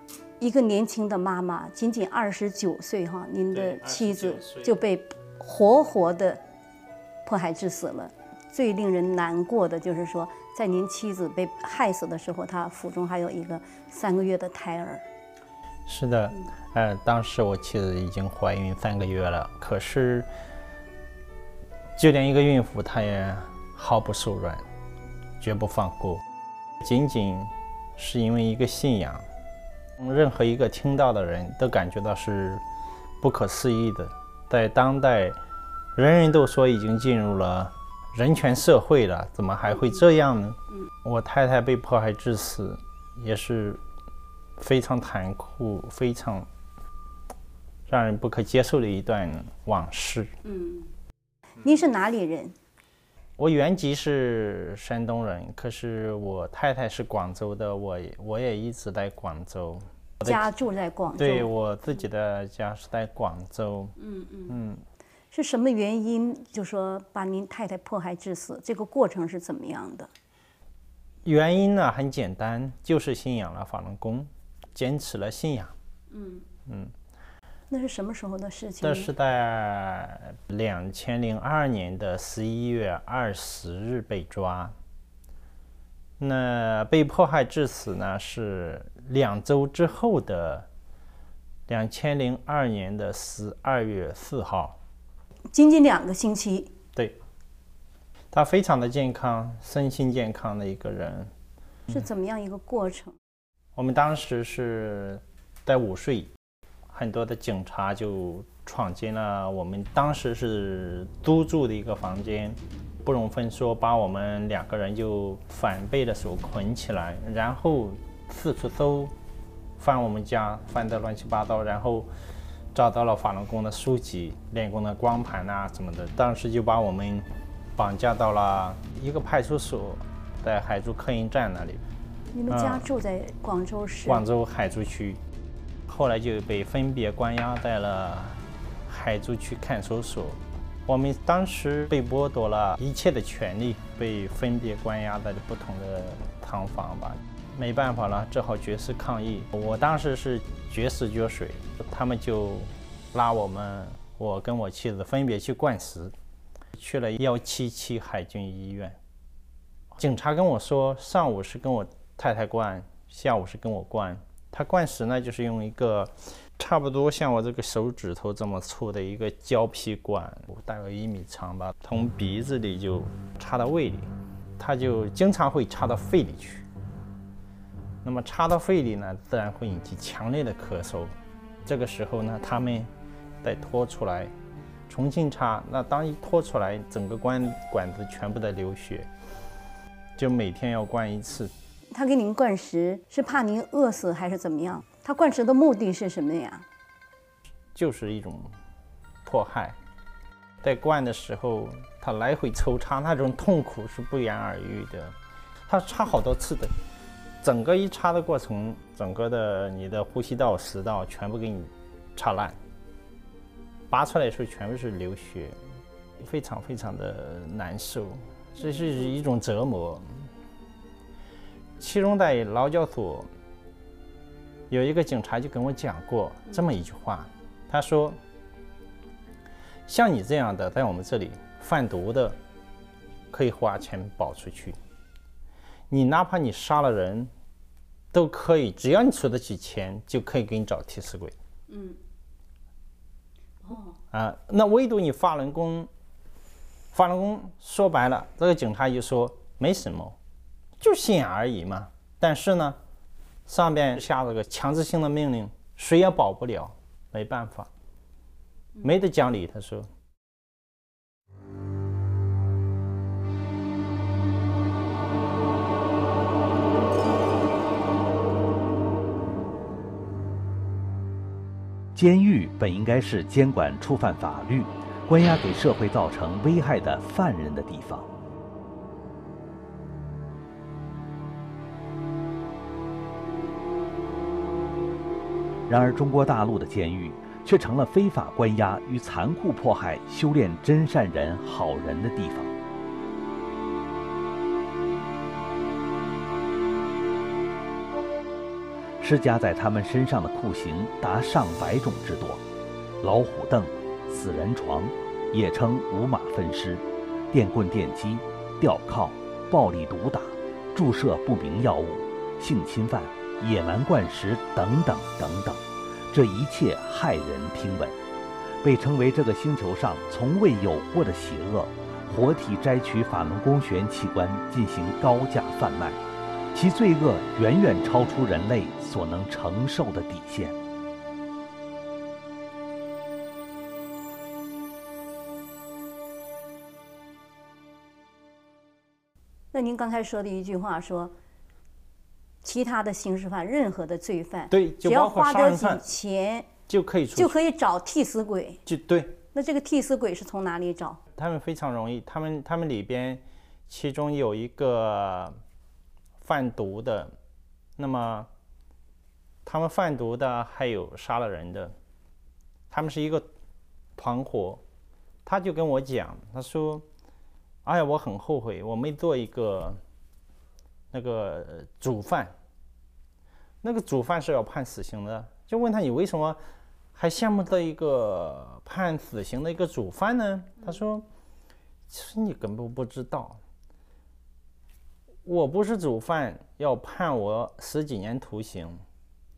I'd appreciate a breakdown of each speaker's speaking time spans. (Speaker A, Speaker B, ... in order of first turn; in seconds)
Speaker A: 0.4-6.4, 7.2-15.0, 50.4-50.9, 51.6-52.5, 60.2-61.5, 64.0-64.5, 65.3-70.1, 76.1-76.4, 77.7-79.1, 95.5-96.7, 101.9-103.2, 132.3-134.2, 191.9-196.6, 241.7-242.0, 243.6-244.0, 339.5-341.1, 342.4-346.5, 347.1-348.6, 349.3-351.0
Speaker B: 3.5-4.8, 15.9-20.3, 22.0-24.6, 25.4-26.2, 26.8-29.2, 30.0-32.6, 33.2-35.4, 36.0-43.8, 44.6-46.5, 47.9-50.3, 53.4-60.5, 61.2-63.9, 64.5-64.8, 71.2-75.7, 76.7-76.9, 78.8-84.7, 86.2-90.7, 91.7-94.8, 98.3-101.3, 103.8-106.3, 106.9-119.1, 119.8-122.1, 122.7-131.8, 132.5-132.8, 134.1-135.2, 135.9-156.1, 156.7-159.0, 159.9-176.6, 178.0-182.9, 183.4-184.3, 184.9-189.1, 190.2-191.5, 197.7-198.5, 199.2-199.8, 200.6-205.1, 205.7-206.7, 207.4-212.6, 213.9-215.6, 216.2-220.1, 221.8-223.3, 224.7-228.2, 229.9-232.4, 233.3-234.8, 235.9-237.3, 238.1-241.3, 244.1-245.9, 246.9-250.2, 250.8-252.8, 253.5-257.7, 258.8-259.9, 344.5-345.9, 346.7-347.3, 348.6-349.2, 351.1-355.4, 356.2-357.1, 357.8-358.3, 359.4-361.7, 362.7-363.2, 364.0-364.6, 365.2-366.8, 367.6-369.8, 370.9-372.3, 373.6-376.4, 376.9-381.1, 381.9-383.4, 385.2-388.8
Speaker C: 271.9-278.1, 285.7-292.5, 299.0-302.4, 303.0-318.0, 318.6-326.0, 326.5-330.6